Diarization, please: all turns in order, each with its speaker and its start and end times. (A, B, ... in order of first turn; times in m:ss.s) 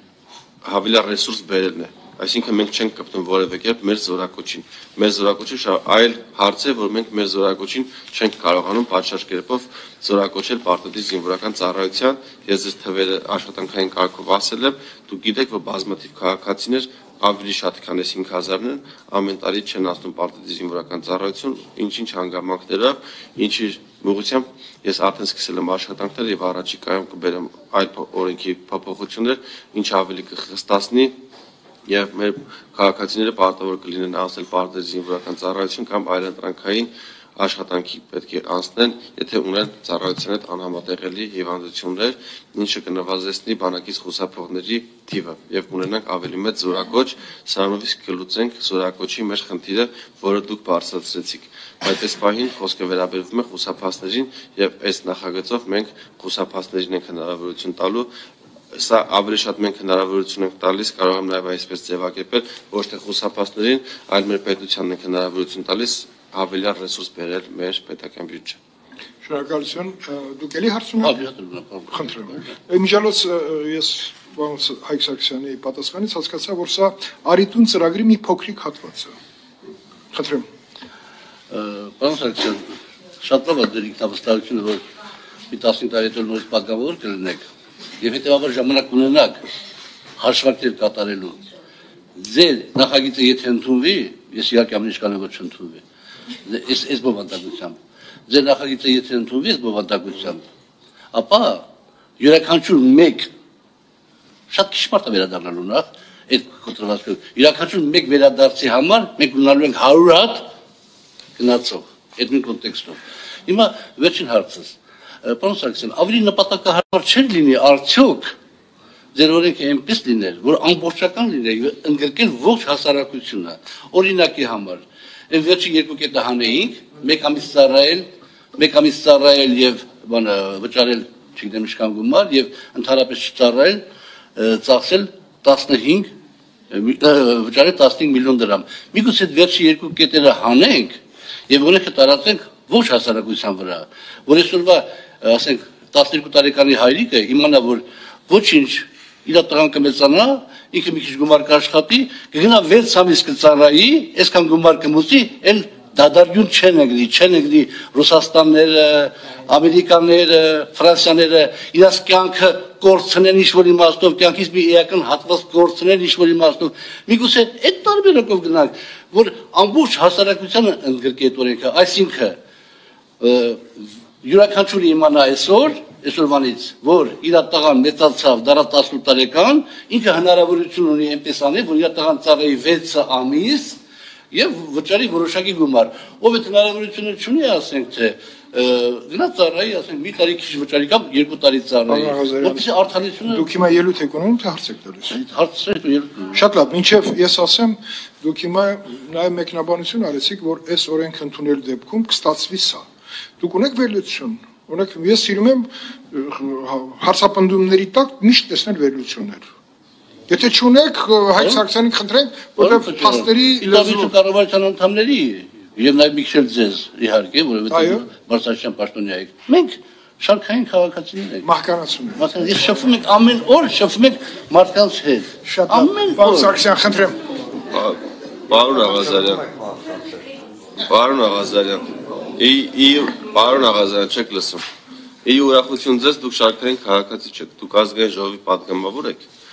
0:00.6-0:31.1 A
0:31.9-0:58.1 A
0:58.7-1:08.6 A
1:09.2-1:11.2 B
1:11.0-1:12.5 C
1:11.9-1:19.1 B
1:20.1-1:20.4 B
1:21.5-1:24.8 C
1:25.5-1:27.5 C
1:28.0-1:29.4 C
1:30.2-1:31.4 C
1:32.2-1:35.8 C
1:36.4-1:37.8 C
1:38.3-1:40.4 C
1:41.1-1:41.6 C
1:42.2-1:43.3 C
1:44.5-1:50.4 C
1:51.4-1:58.3 C
1:59.1-2:13.8 C
2:14.4-2:16.1 C
2:16.7-2:21.0 C
2:21.5-2:52.4 C
2:53.2-3:03.8 C
3:04.3-3:13.5 C
3:11.9-3:12.6 B
3:13.3-3:15.1 B
3:15.1-3:16.4 C
3:16.3-3:22.8 B
3:23.4-3:29.5 B
3:30.3-3:34.1 B
3:32.6-3:41.4 C
3:37.7-3:38.0 B
3:41.4-3:42.3 B
3:42.2-3:46.6 C
3:45.4-3:47.2 B
3:47.7-3:48.0 A
3:48.5-3:49.5 A
3:50.9-3:54.6 A
3:55.2-3:59.3 A